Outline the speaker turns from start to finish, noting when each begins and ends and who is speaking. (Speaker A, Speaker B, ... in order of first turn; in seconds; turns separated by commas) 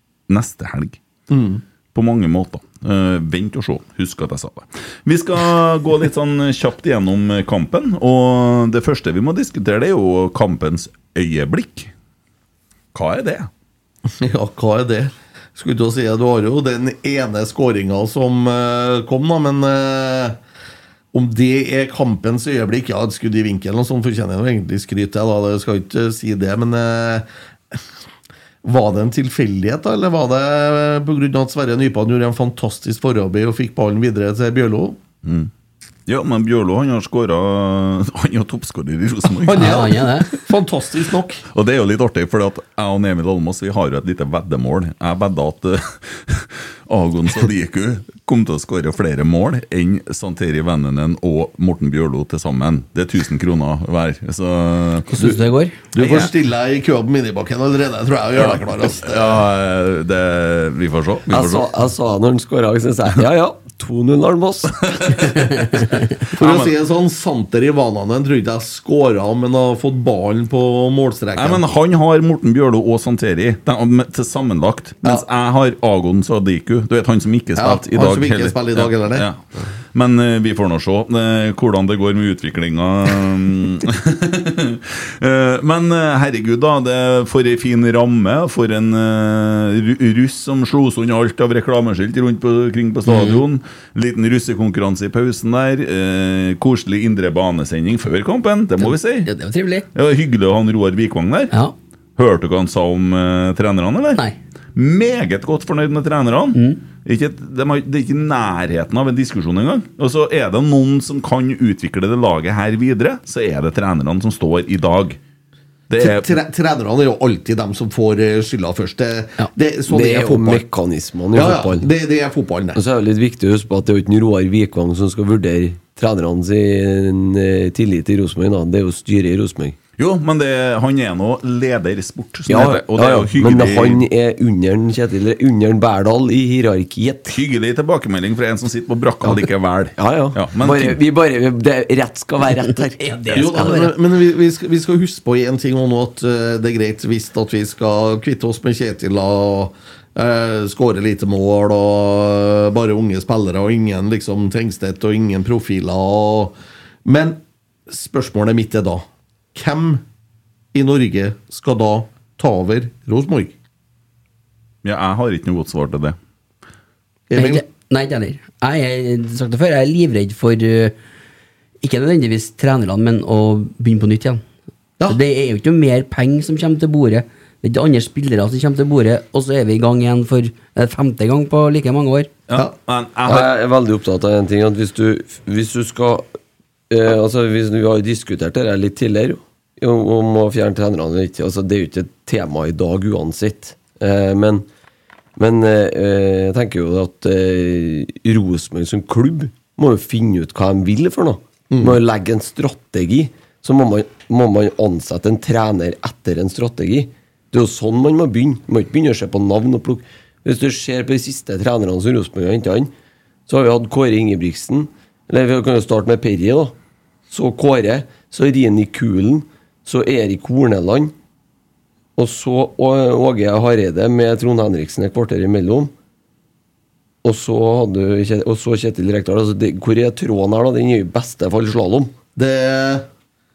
Speaker A: 0.3-1.0, Speaker B: 1.3-1.6, Speaker A: 1.9-11.9, Speaker A: 12.9-13.5, Speaker B: 14.2-20.4, Speaker B: 21.1-27.3, Speaker B: 28.6-35.0, Speaker A: 35.2-35.5, Speaker A: 36.1-39.9, Speaker B: 39.4-41.4, Speaker C: 39.5-40.3, Speaker A: 41.5-55.4, Speaker C: 55.1-55.8, Speaker B: 55.9-59.4, Speaker A: 56.0-56.3, Speaker A: 58.4-61.7, Speaker D: 61.3-65.6, Speaker A: 65.0-65.4, Speaker A: 66.3-66.8, Speaker B: 66.3-71.6, Speaker A: 71.3-79.4, Speaker B: 77.6-79.3, Speaker A: 79.9-99.3, Speaker C: 93.1-93.4, Speaker C: 98.8-99.9, Speaker A: 99.9-101.5, Speaker A: 102.2-104.2, Speaker A: 104.8-115.2, Speaker C: 106.5-106.8, Speaker A: 115.9-116.4, Speaker B: 116.0-120.7, Speaker D: 119.9-121.9, Speaker B: 121.3-122.8, Speaker D: 122.8-129.8, Speaker A: 130.0-134.1, Speaker D: 132.5-137.3, Speaker A: 137.3-141.0, Speaker D: 140.0-143.9, Speaker C: 143.0-143.9, Speaker B: 143.3-160.0, Speaker B: 160.7-163.6, Speaker A: 164.8-166.2, Speaker B: 167.3-167.6, Speaker C: 167.3-170.9, Speaker C: 171.8-174.4, Speaker C: 175.1-182.3, Speaker A: 182.5-183.5, Speaker D: 183.3-186.3, Speaker D: 186.9-194.7, Speaker D: 195.4-212.9, Speaker B: 201.7-202.0, Speaker D: 213.5-216.8, Speaker D: 217.3-221.1, Speaker D: 222.2-225.9, Speaker D: 227.2-232.1, Speaker B: 232.4-233.1